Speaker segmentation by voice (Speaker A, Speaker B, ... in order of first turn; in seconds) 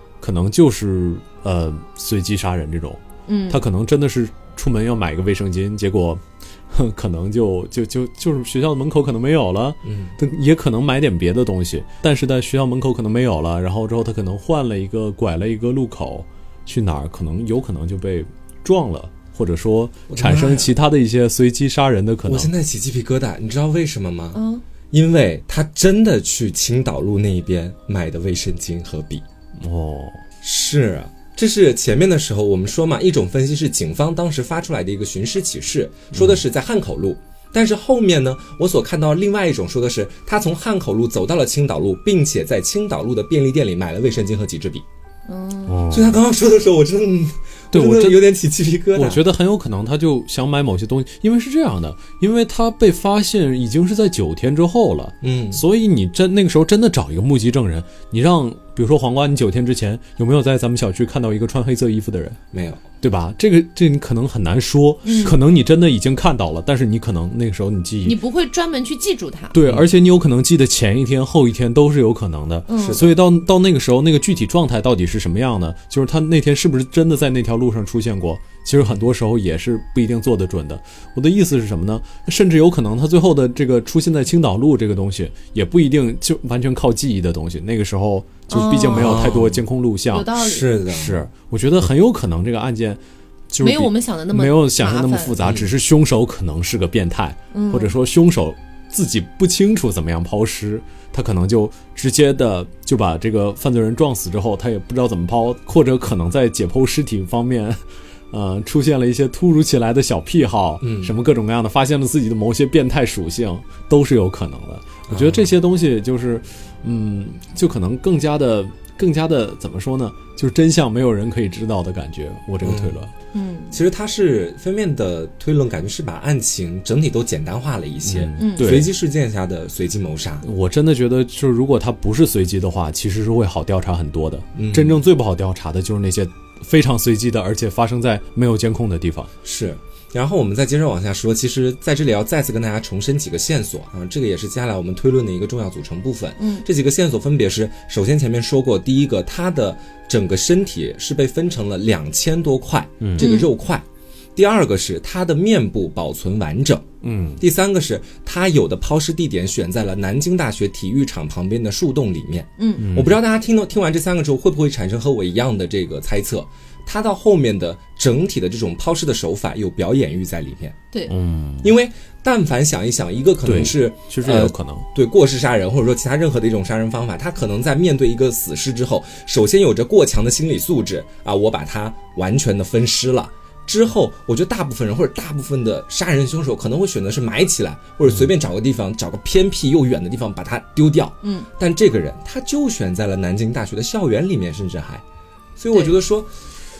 Speaker A: 0.2-22.5, 29.6-30.2, 36.1-36.4, 45.7-46.2, 47.7-48.3, 48.9-62.4, 63.0-68.2, 69.5-90.3, 90.9-93.0, 93.5-107.8, 108.3-123.1, 128.1-128.9, 130.4-139.3, 153.0-153.3, 157.0-157.4, 162.8-163.2, 171.1-171.7, 173.4-174.9
Speaker B: 3.3-3.6, 24.3-24.6, 45.3-45.9, 65.0-65.4, 68.0-69.5, 72.7-73.1, 88.5-89.3, 90.1-90.7, 93.6-95.4, 97.5-97.9, 123.3-123.7, 128.4-128.8, 146.4-146.6, 153.2-153.5, 162.6-162.9, 191.2-191.5
Speaker C: 9.9-10.1, 20.1-20.7, 22.2-24.4, 24.9-29.2, 30.4-44.8, 45.9-49.2, 55.2-55.6, 62.5-62.8, 72.8-73.2, 88.9-89.6, 90.3-91.2, 95.4-95.7, 110.8-111.1, 115.1-115.5, 122.6-123.0, 123.7-130.4, 134.6-135.0, 139.4-170.8, 171.6-195.0, 195.6-196.3